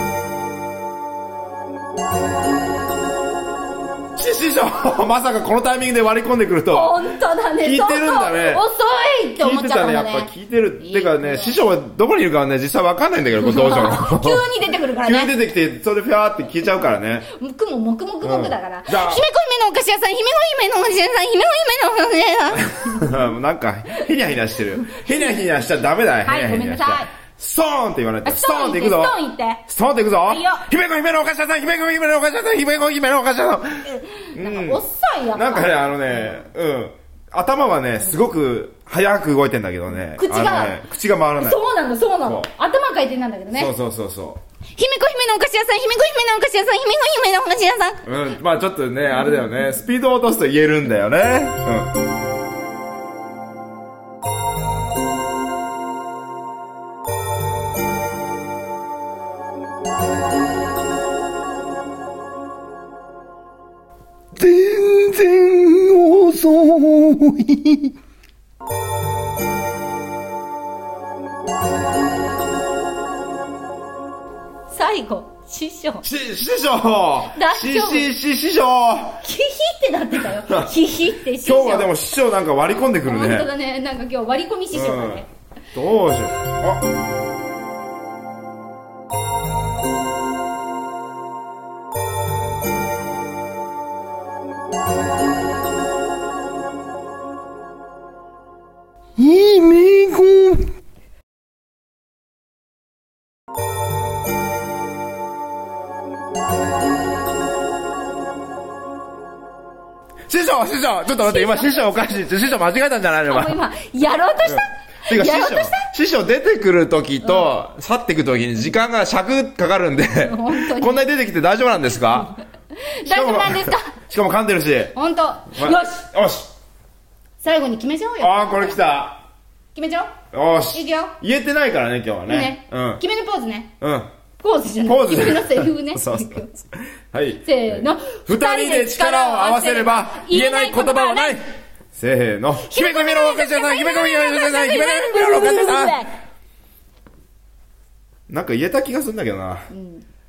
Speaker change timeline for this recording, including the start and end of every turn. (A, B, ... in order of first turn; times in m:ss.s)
0:04.2-0:08.6 A
0:06.7-0:10.3 B
0:09.4-0:14.4 A
0:10.8-0:11.6 B
0:13.4-0:15.3 B
0:15.0-0:17.3 A
0:17.3-0:23.2 B
0:18.2-0:19.2 A
0:22.6-0:29.2 A
0:26.2-0:27.1 B
0:28.2-0:29.6 B
0:29.7-0:34.8 A
0:30.2-0:30.7 B
0:33.9-0:36.4 B
0:35.3-0:41.6 A
0:40.2-0:40.8 B
0:41.4-0:43.7 B
0:43.5-0:44.4 A
0:44.8-0:48.0 B
0:48.1-0:51.9 A
1:04.4-1:07.9 C
1:14.7-1:16.0 B
1:16.0-1:19.2 A
1:17.3-1:18.1 B
1:19.2-1:21.9 B
1:20.3-1:20.7 A
1:21.4-1:23.5 A
1:23.1-1:25.3 B
1:24.7-1:25.2 A
1:25.8-1:26.9 A
1:39.2-1:40.7 C
1:50.3-1:53.6 A
1:51.1-1:52.1 B
1:53.3-1:55.9 B
1:54.4-2:02.3 A
1:57.2-1:57.6 B
2:00.2-2:01.0 B
2:03.0-2:03.9 B
2:03.0-2:04.9 A
2:05.0-2:06.1 B
2:05.5-2:06.5 A
2:07.4-2:08.8 B
2:08.2-2:09.2 A
2:09.7-2:10.1 B
2:10.3-2:13.0 A
2:10.7-2:11.1 B
2:12.3-2:13.7 B
2:13.8-2:14.1 A
2:14.4-2:16.5 B
2:14.8-2:26.0 A
2:17.4-2:21.4 B
2:22.6-2:26.1 B
2:28.3-2:29.7 A
2:29.7-2:30.0 B